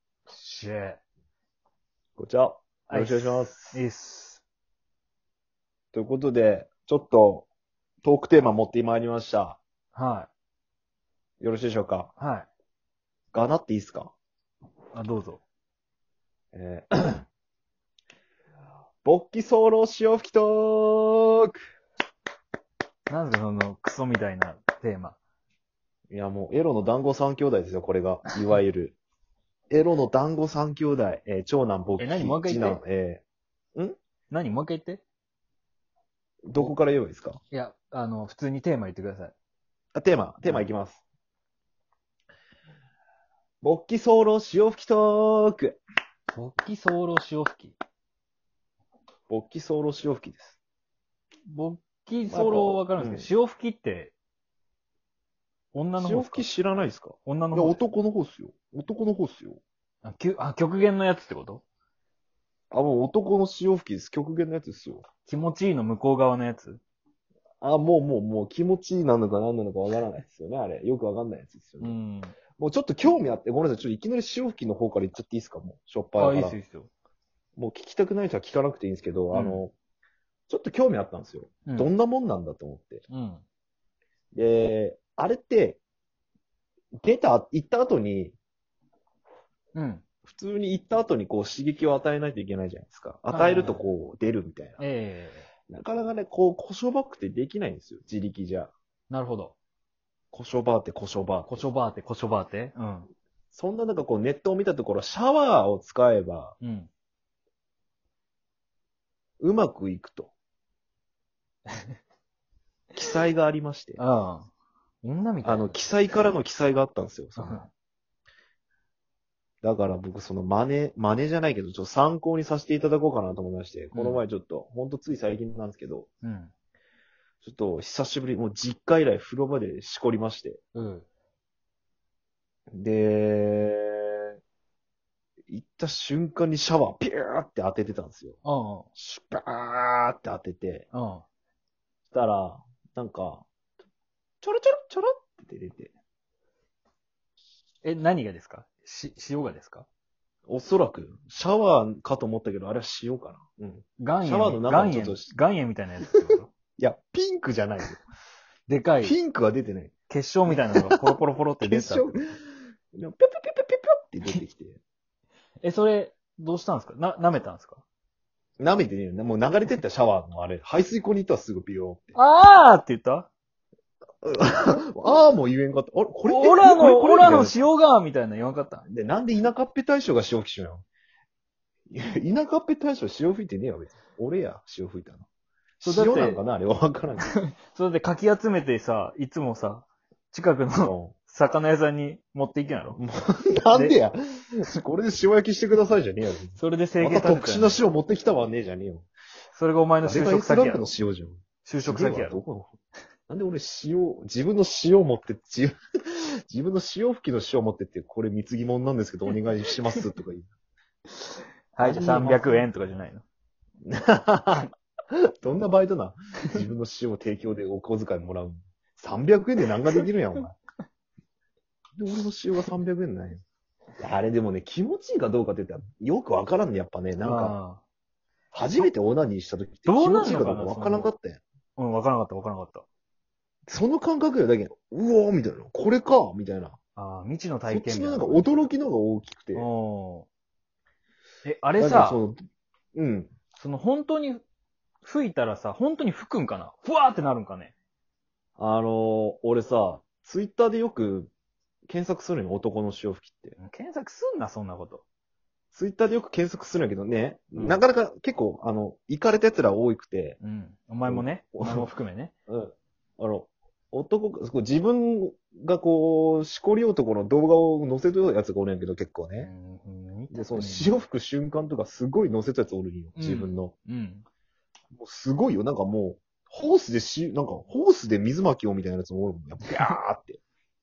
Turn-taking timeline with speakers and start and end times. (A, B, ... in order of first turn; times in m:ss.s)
0:00.3-0:01.0 A
0:02.2-0:03.8 B
0:02.9-0:04.4 A
0:05.9-0:07.5 B
0:08.0-0:09.6 B
0:09.9-0:10.3 A
0:11.4-0:12.1 B
0:12.2-0:12.5 A
0:13.3-0:14.1 B
0:14.9-0:15.4 A
0:16.5-0:17.2 B
0:19.0-0:21.6 B
0:23.1-0:25.2 A
0:26.1-0:29.0 B
0:29.7-0:33.2 B
0:32.0-0:32.8 A
0:34.3-0:35.0 A
0:36.4-0:37.4 B
0:37.5-0:39.3 A
0:39.9-0:41.0 B
0:43.6-0:45.8 B
0:46.3-0:47.8 A
0:49.3-0:50.6 B
0:51.5-0:54.1 A
0:52.3-0:53.3 B
0:55.7-0:56.4 A
0:56.0-0:59.6 B
0:57.2-0:57.8 A
1:00.0-1:01.6 A
1:02.7-1:05.0 B
1:05.2-1:06.8 A
1:07.6-1:12.0 B
1:11.8-1:12.4 A
1:12.6-1:16.6 B
1:16.2-1:16.9 A
1:17.6-1:19.7 B
1:19.3-1:19.6 A
1:20.5-1:23.0 B
1:23.1-1:23.4 A
1:24.3-1:25.8 B
1:27.0-1:28.3 B
1:29.7-1:30.0 A
1:30.3-1:34.8 B
1:33.3-1:33.8 A
1:34.8-1:35.5 A
1:35.7-1:38.7 B
1:39.1-1:39.5 A
1:40.3-1:41.6 B
1:41.5-1:43.1 A
1:43.5-1:46.5 B
1:46.6-1:46.9 A
1:49.4-1:50.3 B
1:52.9-1:54.0 B
1:54.0-1:54.5 A
1:55.0-1:55.8 A
1:55.4-1:57.7 B
1:57.4-1:57.7 A
1:59.6-2:06.1 B
2:03.9-2:04.2 A
2:06.2-2:06.5 A
2:07.4-2:10.6 B
2:10.7-2:11.0 A
2:12.7-2:14.4 B
2:15.5-2:18.4 B
2:18.4-2:18.9 A
2:19.0-2:20.8 B
2:20.9-2:21.2 A
2:22.1-2:23.4 B
2:24.4-2:25.9 B
2:27.8-2:29.8 A
2:30.5-2:35.3 B
2:34.0-2:36.5 A
2:36.8-2:38.0 B
2:38.7-2:39.2 A
2:39.0-2:39.9 B
2:40.1-2:42.1 A
2:40.4-2:41.0 B
2:41.6-2:42.2 B
2:42.9-2:44.8 B
2:45.6-2:47.8 A
2:48.6-2:52.2 B
2:52.1-2:53.3 A
2:54.2-2:57.6 B
2:56.2-2:58.8 A
2:58.9-3:00.8 B
3:01.9-3:05.2 B
3:05.8-3:07.3 B
3:05.8-3:06.4 A
3:07.3-3:13.0 A
3:10.8-3:11.1 B
3:12.9-3:19.1 B
3:16.6-3:17.8 A
3:19.5-3:20.9 A
3:20.0-3:22.7 B
3:21.6-3:22.4 A
3:23.3-3:30.5 B
3:31.1-3:33.2 A
3:31.8-3:33.0 B
3:33.8-3:40.5 B
3:42.0-3:43.4 B
3:44.0-3:47.6 B
3:47.2-3:47.8 A
3:48.5-3:51.4 B
3:49.8-3:51.1 A
3:51.8-3:52.8 A
3:53.7-3:56.8 B
3:57.0-3:58.6 A
3:57.6-3:59.7 B
3:59.5-4:00.3 A
4:01.4-4:02.2 A
4:01.8-4:02.4 B
4:02.9-4:03.3 B
4:03.6-4:04.4 A
4:05.0-4:07.7 A
4:08.6-4:11.3 B
4:11.9-4:13.6 B
4:13.6-4:15.0 A
4:15.7-4:20.4 B
4:17.6-4:17.8 A
4:20.4-4:22.3 A
4:21.0-4:21.9 B
4:22.5-4:29.5 B
4:29.4-4:30.9 A
4:30.3-4:33.7 B
4:33.2-4:34.2 A
4:34.9-4:40.4 B